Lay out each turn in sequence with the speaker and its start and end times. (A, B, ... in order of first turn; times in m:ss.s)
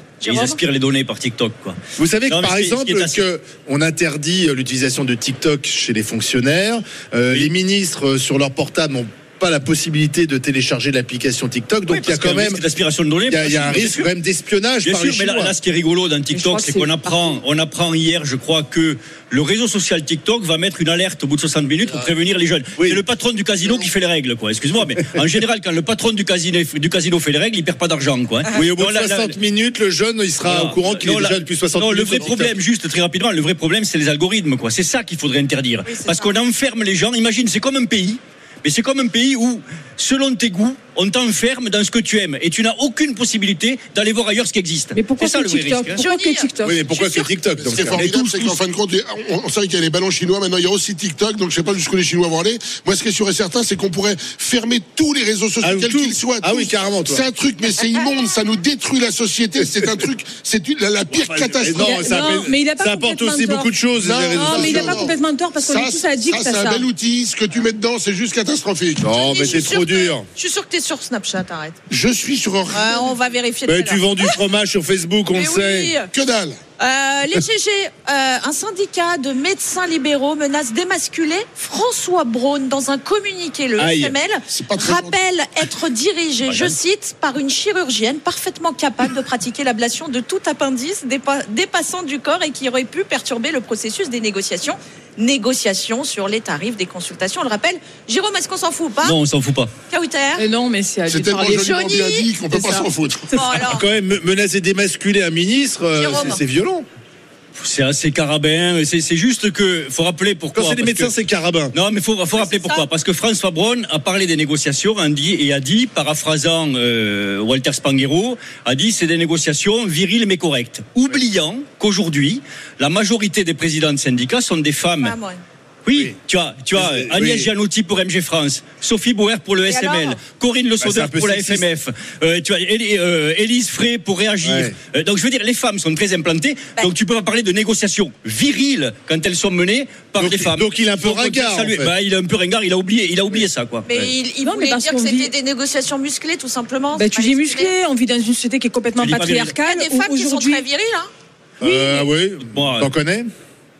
0:00.2-0:00.6 A
0:00.2-0:03.3 B
0:02.0-0:12.6 C
0:11.9-0:14.1 B
0:13.3-0:15.5 C
0:14.8-0:29.4 B
0:16.3-0:17.0 D
0:28.5-0:32.5 C
0:30.4-0:46.0 B
0:35.8-0:36.3 A
0:44.9-0:46.8 D
0:46.0-0:47.3 A
0:46.6-0:48.0 C
0:47.5-1:02.4 E
0:47.7-0:48.6 B
0:55.6-0:57.2 C
1:01.1-1:05.1 C
1:01.7-1:03.7 D
1:04.0-1:09.7 E
1:04.3-1:06.8 D
1:09.0-1:10.2 C
1:09.2-1:11.8 A
1:11.9-1:13.1 E
1:12.7-1:14.4 A
1:13.6-1:16.0 C
1:15.3-1:16.1 A
1:16.1-1:16.6 E
1:16.8-1:39.1 A
1:23.8-1:24.2 C
1:24.5-1:25.2 E
1:26.4-1:26.7 B
1:39.0-1:39.7 B
1:39.9-1:40.4 A
1:40.4-1:41.9 D
1:41.1-1:43.4 E
1:41.6-1:42.3 A
1:42.5-1:42.9 D
1:43.4-1:43.8 A
1:43.4-1:46.8 C
1:45.9-1:46.4 A
1:47.6-1:51.1 B
1:50.5-1:51.7 C
1:51.7-2:05.2 B
1:52.4-1:52.8 A
2:05.0-2:05.4 A
2:05.8-2:24.1 B
2:06.7-2:07.5 C
2:09.7-2:10.2 A
2:10.8-2:11.6 C
2:14.4-2:14.7 C
2:20.2-2:21.9 C
2:23.9-2:27.7 A
2:24.4-2:25.3 D
2:26.9-2:30.6 D
2:29.0-2:29.5 B
2:29.6-2:31.1 A
2:31.6-2:33.3 C
2:32.4-2:32.9 B